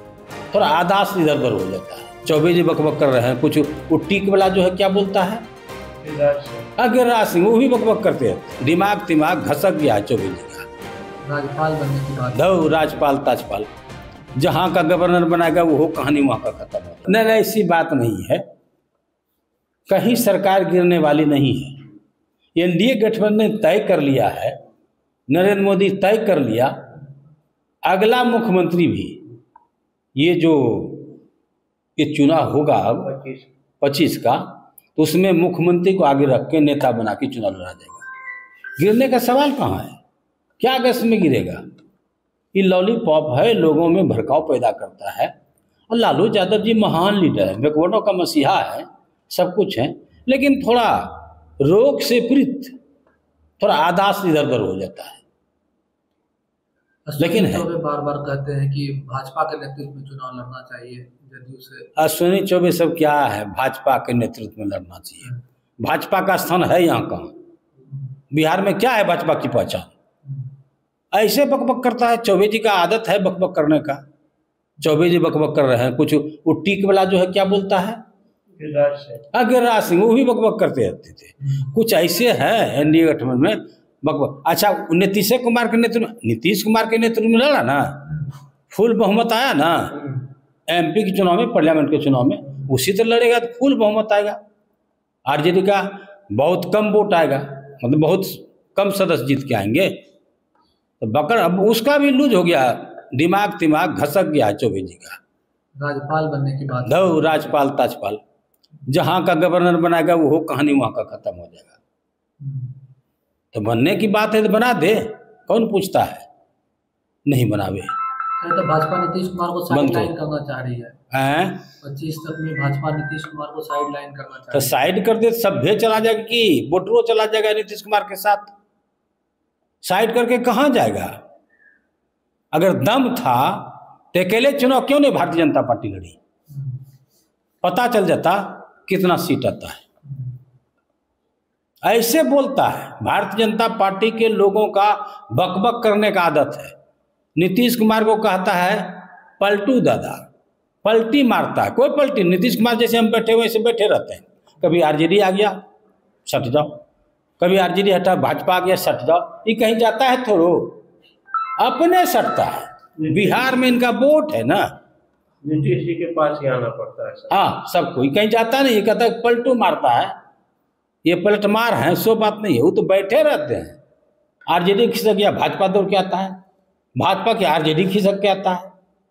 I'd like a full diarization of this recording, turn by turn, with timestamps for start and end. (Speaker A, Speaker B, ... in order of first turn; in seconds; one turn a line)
Speaker A: 0.5-5.4
Speaker B: 6.0-6.7
Speaker A: 6.8-10.7
Speaker C: 11.2-12.7
Speaker A: 12.3-13.7
Speaker A: 14.3-18.4
Speaker A: 19.9-21.8
Speaker A: 22.5-24.6
Speaker A: 25.3-26.7
Speaker A: 27.8-29.2
Speaker A: 30.1-31.2
Speaker A: 32.0-33.1
Speaker B: 33.1-33.5
Speaker A: 33.8-38.1
Speaker A: 38.8-40.0
Speaker A: 40.6-41.6
Speaker A: 42.5-45.3
Speaker A: 45.9-52.7
Speaker A: 53.6-55.2
Speaker C: 57.1-61.9
Speaker A: 57.2-57.6
Speaker A: 62.0-67.3
Speaker A: 68.3-69.9
Speaker A: 71.1-74.0
Speaker A: 74.8-78.0
Speaker B: 78.5-79.2
Speaker A: 79.3-94.4
Speaker A: 95.3-100.0
Speaker A: 101.0-105.2
Speaker C: 105.8-107.5
Speaker A: 106.8-108.2
Speaker A: 108.9-111.8
Speaker C: 112.4-112.7
Speaker A: 113.5-116.2
Speaker A: 117.3-117.9
Speaker C: 118.4-121.0
Speaker A: 119.7-120.1
Speaker A: 121.1-121.7
Speaker C: 121.8-124.8
Speaker A: 124.5-128.5
Speaker A: 129.8-131.2
Speaker A: 132.5-136.2
Speaker A: 137.6-139.8
Speaker A: 141.8-146.7
Speaker A: 147.4-150.3
Speaker A: 150.8-155.6
Speaker A: 156.2-156.8
Speaker A: 157.4-160.8
Speaker A: 161.6-164.7
Speaker B: 165.4-167.4
Speaker A: 167.3-170.1
Speaker A: 171.0-173.8
Speaker A: 174.5-176.4
Speaker A: 177.0-178.7